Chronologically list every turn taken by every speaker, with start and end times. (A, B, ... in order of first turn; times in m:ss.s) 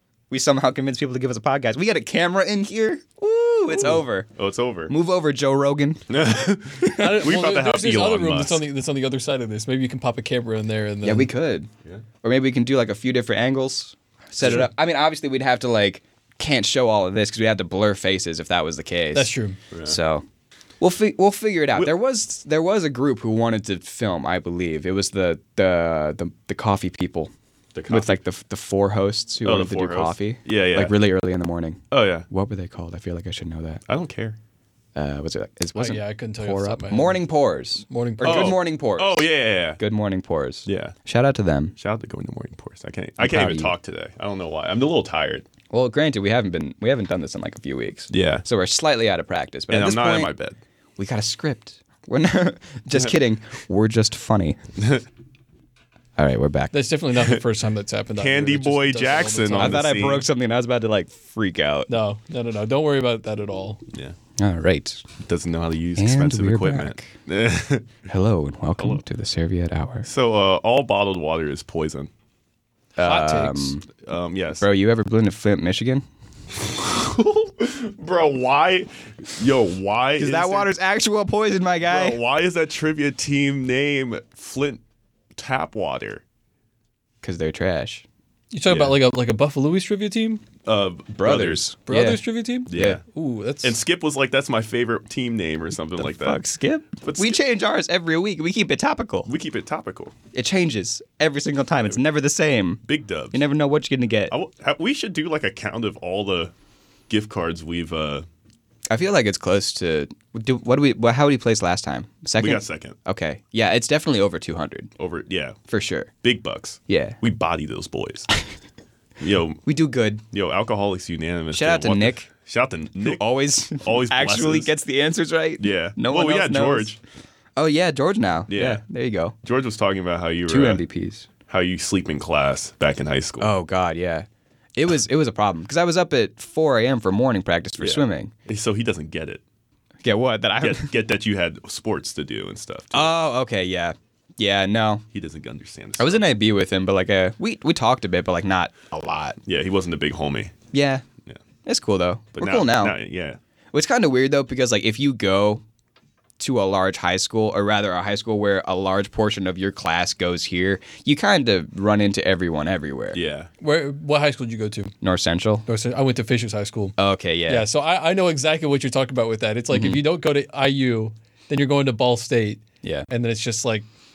0:00.3-0:04.3 A
0:03.7-0:04.9 B
0:04.9-0:06.1 A
0:06.1-0:08.6 B
0:06.8-0:07.2 A
0:06.9-0:11.3 C
0:11.0-0:11.7 A
0:12.2-0:19.3 A
0:14.4-0:14.7 B
0:19.1-0:19.6 C
0:19.7-0:20.0 B
0:19.8-0:20.2 A
0:20.8-0:27.3 A
0:27.7-0:28.2 B
0:27.9-0:33.8 A
0:29.4-0:30.9 B
0:31.9-0:32.3 B
0:33.9-0:34.4 B
0:34.9-0:41.8 A
0:35.8-0:37.2 C
0:37.9-0:38.5 C
0:38.2-0:39.8 B
0:40.6-0:40.9 B
0:41.8-0:45.4 B
0:43.2-0:43.7 A
0:45.7-0:50.3 A
0:48.1-0:48.4 B
0:49.7-0:50.6 B
0:51.0-0:54.6 A
0:54.8-0:55.0 B
0:56.2-0:56.7 A
0:56.7-0:59.9 C
0:57.2-0:57.4 B
0:58.2-1:00.2 B
0:59.5-1:01.9 A
1:01.9-1:03.8 C
1:03.9-1:04.2 B
1:04.4-1:05.0 A
1:05.2-1:07.9 B
1:06.0-1:07.1 A
1:08.1-1:10.1 A
1:08.8-1:09.0 B
1:10.0-1:12.1 B
1:13.0-1:13.9 A
1:13.0-1:13.8 C
1:13.9-1:14.6 B
1:14.6-1:16.0 A
1:16.6-1:20.7 B
1:20.2-1:22.2 A
1:21.8-1:24.8 B
1:25.3-1:26.2 B
1:27.2-1:28.0 A
1:28.5-1:30.4 C
1:28.7-1:29.0 B
1:30.6-1:31.6 B
1:31.2-1:33.0 A
1:31.9-1:33.8 C
1:32.7-1:33.0 B
1:33.6-1:36.4 B
1:36.0-1:39.3 A
1:37.0-1:37.4 B
1:39.2-1:40.1 B
1:40.3-1:44.3 A
1:42.8-1:43.4 B
1:44.3-1:46.5 B
1:47.1-1:48.3 B
1:48.9-1:54.9 A
1:52.4-1:53.0 B
1:55.0-1:55.6 B
1:55.7-1:56.1 A
1:56.2-1:58.3 B
1:56.9-1:57.2 A
1:59.2-1:59.6 B
1:59.6-2:00.2 A
2:00.3-2:03.2 B
2:01.5-2:02.3 A
2:03.0-2:06.9 A
2:03.8-2:04.7 B
2:05.6-2:07.0 B
2:07.6-2:09.3 A
2:08.5-2:08.8 B
2:09.4-2:10.8 B
2:10.5-2:11.3 A
2:11.5-2:13.5 B
2:13.4-2:18.3 A
2:17.8-2:19.4 B
2:20.0-2:20.9 A
2:20.6-2:23.1 B
2:22.9-2:25.0 A
2:25.1-2:26.3 B
2:26.0-2:29.4 A
2:29.4-2:30.5 B
2:30.7-2:31.0 A
2:31.6-2:33.0 A
2:32.3-2:33.4 B
2:33.7-2:35.6 A
2:36.4-2:43.2 A
2:43.1-2:43.5 B
2:43.6-2:44.9 C
2:45.0-2:45.6 A
2:45.7-2:47.0 C
2:47.0-2:47.6 A
2:47.5-2:53.8 C
2:49.7-2:50.0 A